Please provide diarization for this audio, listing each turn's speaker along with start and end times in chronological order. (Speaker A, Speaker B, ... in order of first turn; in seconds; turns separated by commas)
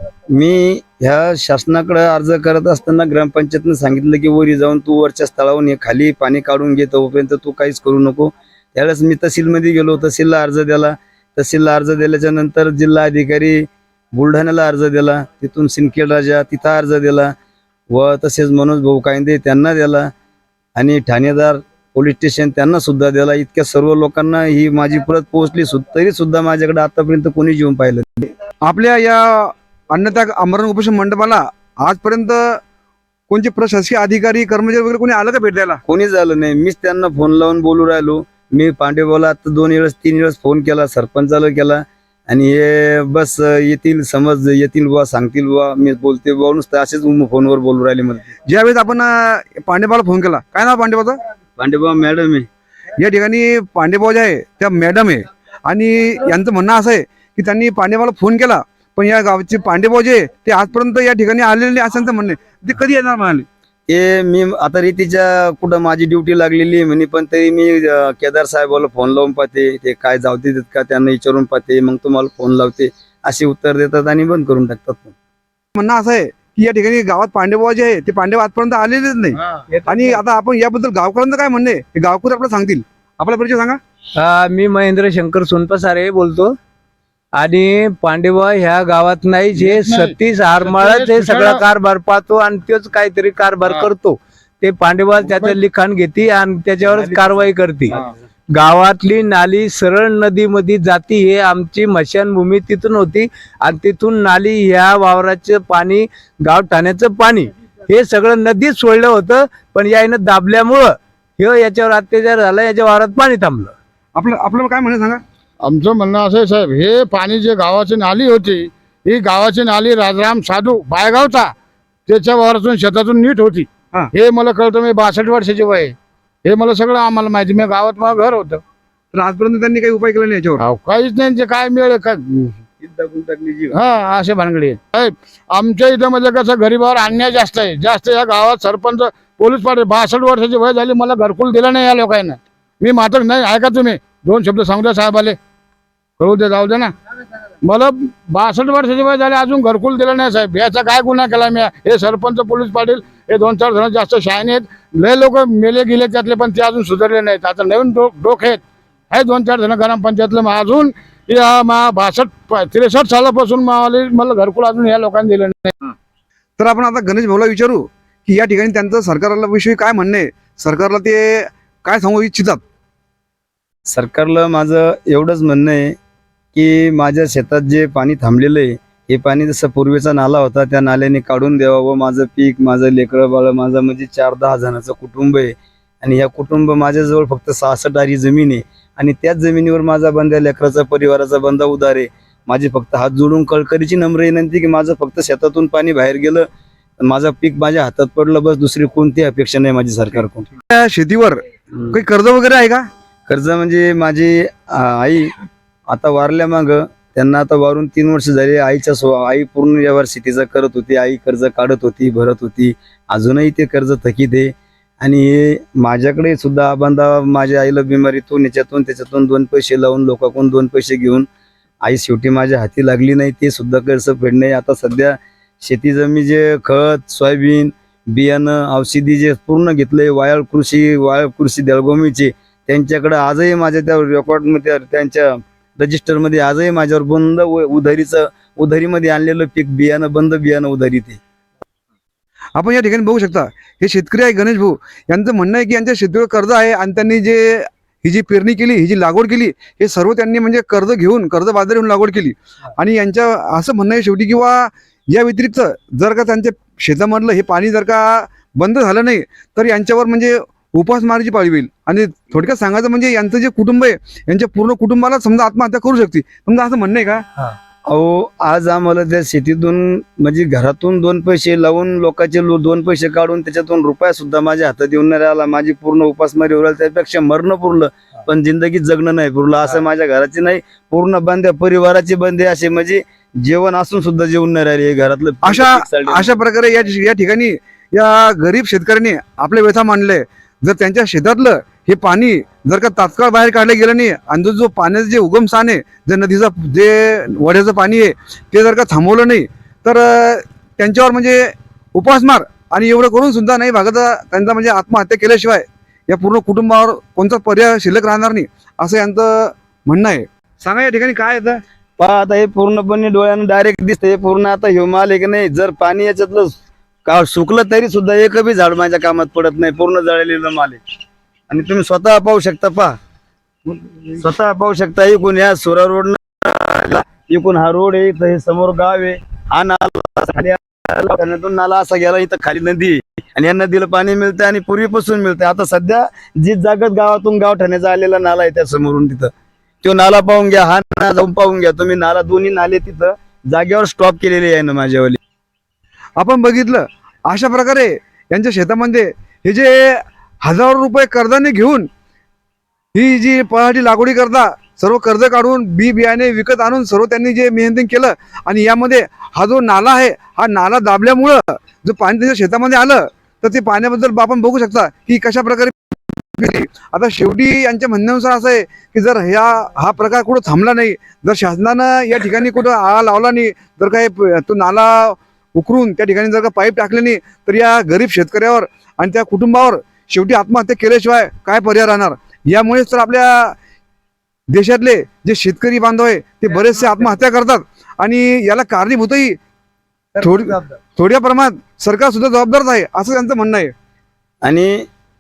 Speaker A: 0.3-17.3, Speaker A: 17.9-20.1, Speaker A: 20.8-28.3, Speaker B: 28.6-32.6, Speaker B: 33.3-35.8, Speaker A: 35.9-48.3, Speaker B: 48.5-51.2, Speaker A: 51.6-52.5, Speaker B: 53.0-63.5, Speaker A: 63.9-75.2, Speaker B: 75.8-83.8, Speaker C: 84.2-86.5, Speaker C: 87.3-98.0, Speaker D: 89.5-91.6, Speaker D: 95.3-95.5, Speaker A: 97.0-98.1, Speaker C: 98.5-113.7, Speaker B: 114.2-115.2, Speaker D: 115.6-121.5, Speaker D: 122.1-125.9, Speaker D: 126.5-128.6, Speaker B: 129.1-130.6, Speaker D: 130.6-132.6, Speaker A: 132.8-133.8, Speaker D: 133.7-145.4, Speaker D: 146.2-146.9, Speaker D: 147.6-165.9, Speaker B: 166.6-172.6, Speaker A: 173.9-175.9, Speaker A: 176.5-196.5, Speaker A: 197.0-200.5, Speaker B: 200.7-201.4, Speaker B: 201.9-202.9, Speaker A: 203.3-205.3, Speaker A: 205.9-221.3, Speaker A: 221.8-241.2, Speaker B: 242.6-267.2, Speaker A: 267.9-286.4, Speaker B: 285.4-311.6, Speaker A: 312.0-316.5, Speaker A: 317.1-320.8, Speaker A: 321.5-322.9, Speaker A: 324.2-339.3, Speaker A: 339.8-345.2, Speaker B: 346.2-351.9, Speaker B: 352.9-383.6, Speaker B: 384.5-389.4, Speaker A: 390.2-390.7, Speaker B: 390.2-393.7, Speaker A: 394.4-394.9